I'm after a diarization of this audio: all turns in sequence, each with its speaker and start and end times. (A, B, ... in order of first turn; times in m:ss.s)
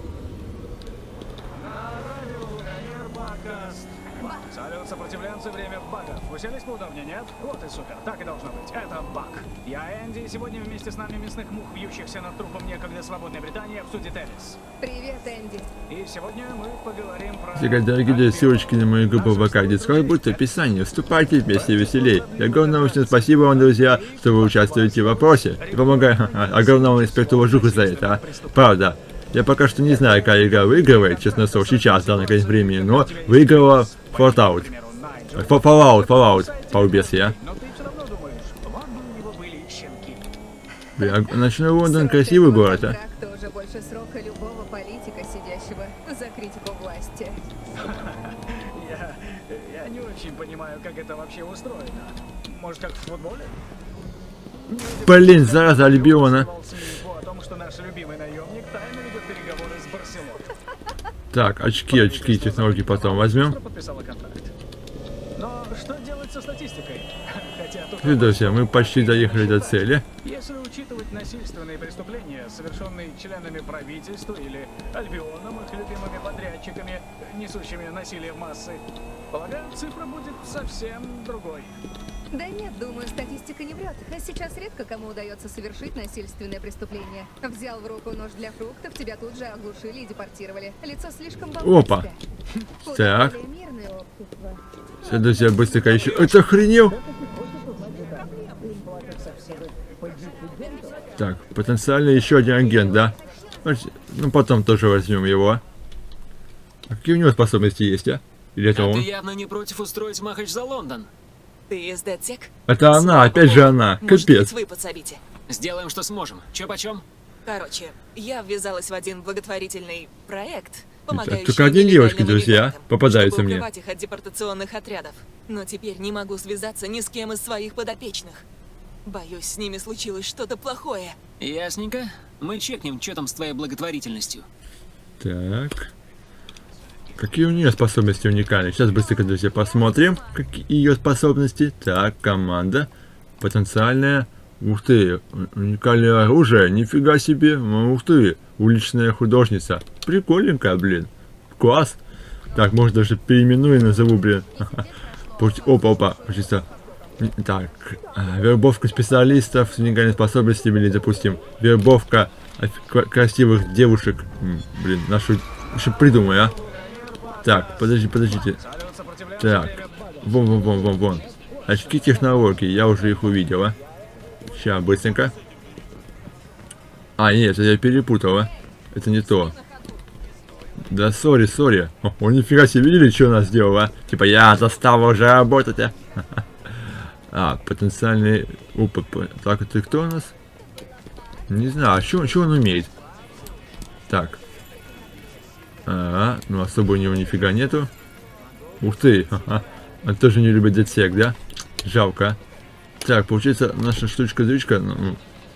0:01.6-0:14.6 A
0:14.8-0:15.7 B
0:15.9-0:20.5 A
0:17.5-0:34.7 C
0:21.5-0:28.7 A
0:30.2-0:40.2 A
0:35.3-0:37.4 C
0:41.0-0:43.0 C
0:41.0-0:47.4 B
0:47.8-0:53.6 A
0:54.7-1:00.5 A
0:54.9-0:56.5 C
1:01.3-1:03.6 C
1:01.9-1:04.5 A
1:05.4-1:21.8 A
1:08.0-1:10.0 C
1:22.3-1:32.2 B
1:31.6-1:32.1 C
1:32.8-1:34.6 B
1:32.9-1:33.4 C
1:35.0-1:37.0 C
1:37.8-1:38.1 B
1:40.5-1:40.8 B
1:41.2-1:45.6 C
1:46.9-1:49.1 C
1:48.7-1:51.1 D
1:51.7-1:55.2 E
1:52.7-1:54.5 C
1:55.5-1:57.0 D
1:57.4-2:08.4 E
2:01.1-2:03.6 C
2:09.0-2:11.2 E
2:11.4-2:14.5 D
2:15.2-2:15.9 C
2:17.2-2:22.9 C
2:23.4-2:32.0 C
2:32.5-2:36.7 C
2:37.2-2:46.5 C
2:47.4-2:48.6 C
2:48.4-2:51.2 A
2:49.4-2:53.8 C
2:54.5-2:55.3 C
2:57.2-2:59.6 C
3:00.9-3:10.3 C
3:11.5-3:12.9 C
3:14.1-3:14.4 C
3:15.8-3:17.9 C
3:18.8-3:22.4 C
3:23.0-3:25.2 C